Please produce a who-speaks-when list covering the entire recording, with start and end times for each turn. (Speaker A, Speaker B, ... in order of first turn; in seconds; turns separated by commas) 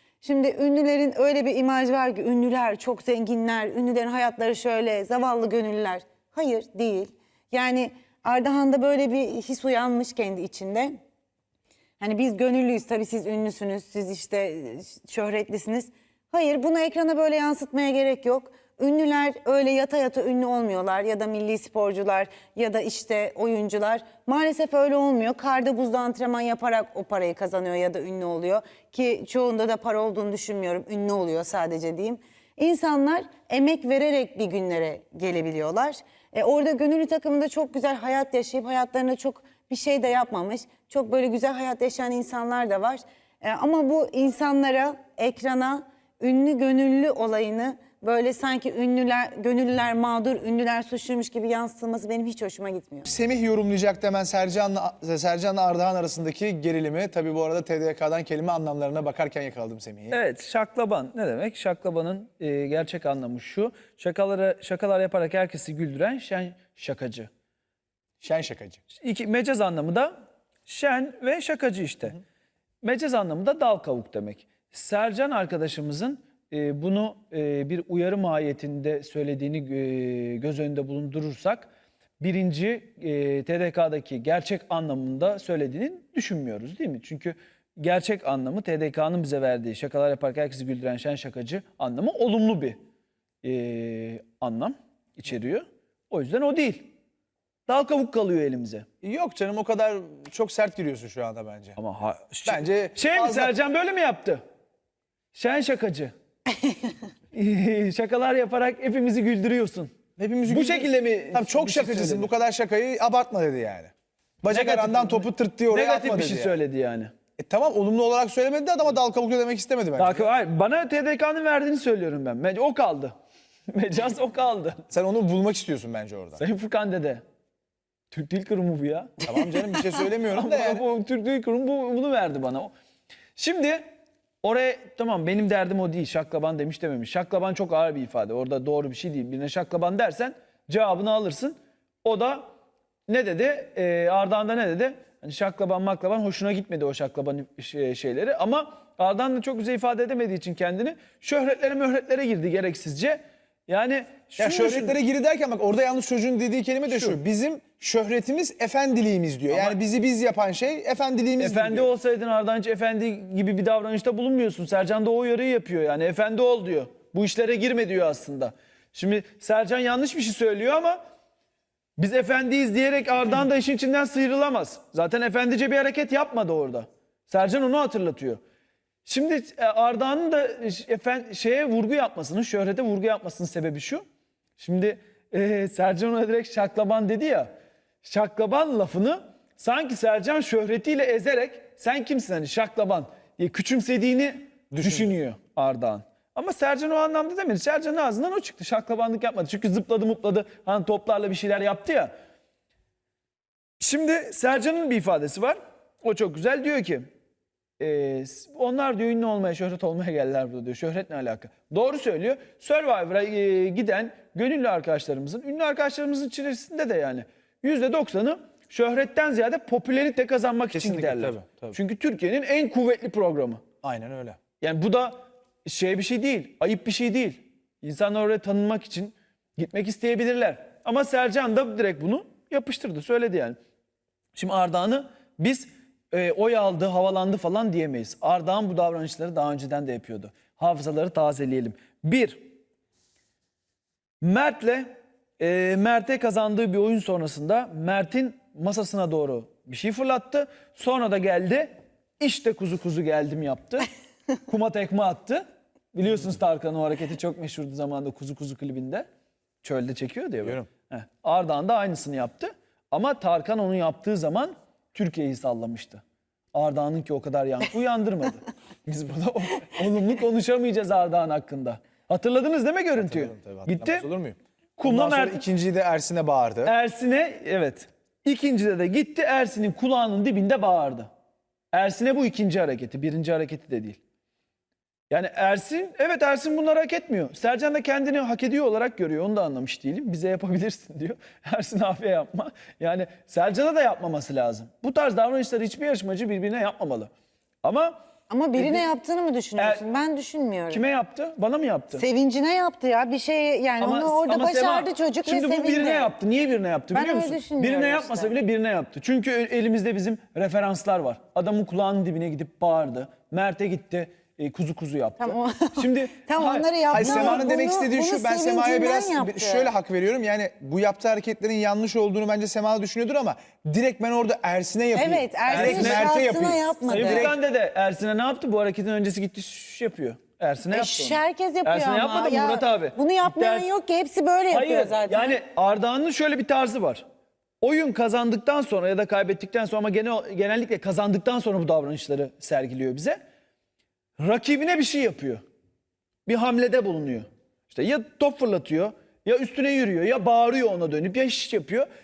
Speaker A: 0.2-11.0, Speaker A: 12.0-53.1, Speaker B: 53.1-60.2, Speaker C: 60.1-67.3, Speaker B: 68.2-68.8, Speaker C: 69.0-70.1, Speaker C: 70.7-72.2, Speaker C: 72.8-92.8, Speaker C: 93.4-96.9, Speaker C: 97.7-98.9, Speaker B: 99.0-101.8, Speaker C: 101.8-104.4, Speaker B: 102.5-103.5, Speaker C: 105.3-106.1, Speaker C: 107.3-112.3, Speaker B: 110.2-113.9, Speaker B: 114.4-116.6, Speaker C: 114.5-117.1, Speaker B: 117.4-120.3, Speaker C: 120.0-123.2, Speaker C: 123.7-124.8, Speaker B: 124.9-126.4, Speaker C: 126.4-127.2, Speaker C: 128.1-129.2, Speaker B: 129.2-130.8, Speaker C: 130.3-132.7, Speaker C: 133.4-133.8, Speaker C: 134.4-142.5, Speaker C: 143.1-155.0, Speaker B: 154.4-161.9, Speaker C: 156.9-157.2, Speaker C: 159.5-159.8, Speaker C: 161.4-171.0, Speaker C: 172.0-178.4, Speaker C: 179.1-184.0, Speaker C: 184.6-187.5, Speaker C: 188.0-202.1, Speaker B: 194.7-195.2, Speaker C: 203.8-207.1, Speaker C: 207.8-223.6, Speaker B: 220.7-221.8, Speaker B: 223.8-224.4, Speaker C: 224.6-233.6, Speaker C: 234.3-242.5, Speaker C: 244.2-244.9, Speaker C: 245.4-253.9, Speaker C: 254.5-255.4, Speaker C: 255.9-259.1, Speaker C: 259.6-266.0, Speaker B: 260.4-260.7, Speaker C: 266.5-274.1, Speaker B: 273.0-276.7, Speaker C: 274.8-275.4, Speaker C: 276.6-281.1, Speaker C: 281.7-284.0, Speaker C: 285.1-297.1, Speaker C: 297.6-298.0, Speaker A: 298.3-300.8, Speaker C: 298.5-298.9, Speaker C: 299.6-299.9, Speaker C: 300.7-302.1, Speaker A: 301.9-306.1, Speaker C: 303.8-317.5, Speaker A: 306.9-308.3, Speaker A: 315.2-319.7, Speaker B: 316.9-327.3, Speaker A: 324.9-327.4, Speaker C: 325.5-326.2, Speaker C: 326.9-333.7, Speaker A: 330.7-335.4, Speaker C: 334.5-337.0, Speaker C: 337.6-343.2, Speaker C: 344.2-345.4, Speaker C: 346.3-351.9